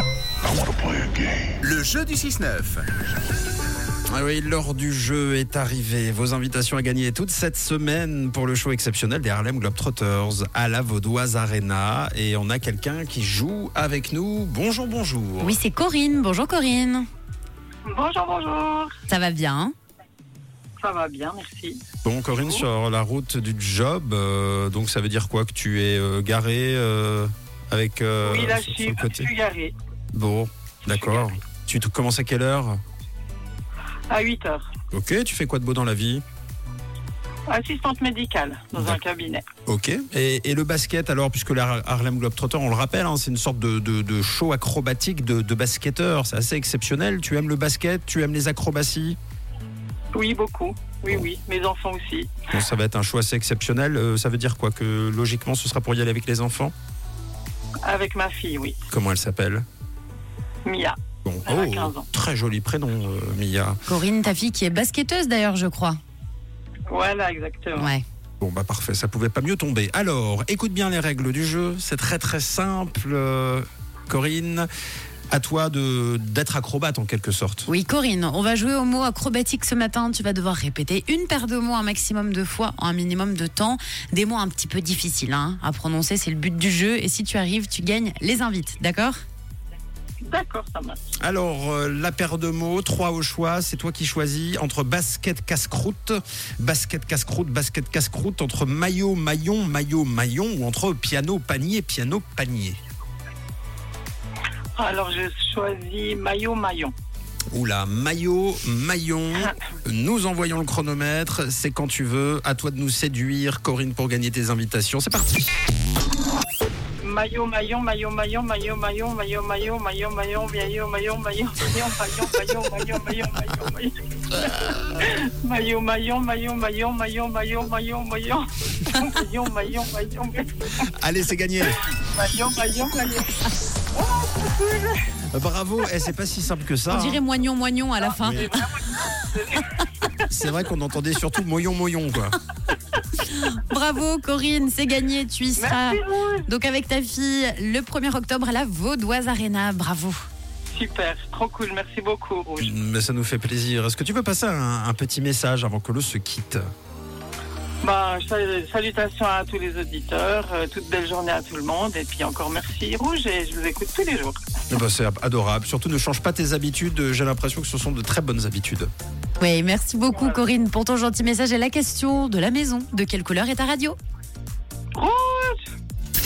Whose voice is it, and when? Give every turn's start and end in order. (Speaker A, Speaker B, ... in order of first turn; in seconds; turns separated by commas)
Speaker A: 0.5-2.8, Speaker B: 4.1-15.6, Speaker C: 15.4-17.1, Speaker D: 17.9-18.9, Speaker C: 19.1-19.7, Speaker D: 20.8-21.8, Speaker B: 22.0-29.3, Speaker D: 22.4-22.6, Speaker D: 28.2-29.7, Speaker B: 30.1-32.8, Speaker D: 30.9-31.4, Speaker D: 34.1-34.7, Speaker B: 34.9-36.2, Speaker D: 37.5-39.4, Speaker B: 38.7-39.0, Speaker B: 39.6-49.2, Speaker D: 50.1-52.5, Speaker B: 52.5-56.7, Speaker D: 57.8-58.8, Speaker B: 58.9-59.6, Speaker D: 60.6-62.0, Speaker B: 61.2-63.8, Speaker C: 63.9-66.0, Speaker D: 66.9-67.9, Speaker C: 67.7-68.0, Speaker B: 68.4-74.7, Speaker B: 75.3-77.7, Speaker C: 77.7-89.1, Speaker D: 90.2-91.0, Speaker B: 91.2-102.8, Speaker D: 104.8-106.9, Speaker B: 107.5-115.4, Speaker D: 117.0-130.5, Speaker B: 131.0-131.8, Speaker D: 131.9-133.4, Speaker D: 133.9-135.0, Speaker B: 135.3-137.2, Speaker C: 136.9-138.7, Speaker D: 138.0-140.3, Speaker B: 138.2-138.5, Speaker B: 140.3-142.4, Speaker C: 143.2-150.2, Speaker D: 145.6-146.5, Speaker D: 150.7-152.7, Speaker B: 152.6-156.6, Speaker D: 157.8-164.4, Speaker B: 164.7-168.9, Speaker C: 169.4-173.9, Speaker D: 170.1-170.4, Speaker D: 174.9-175.6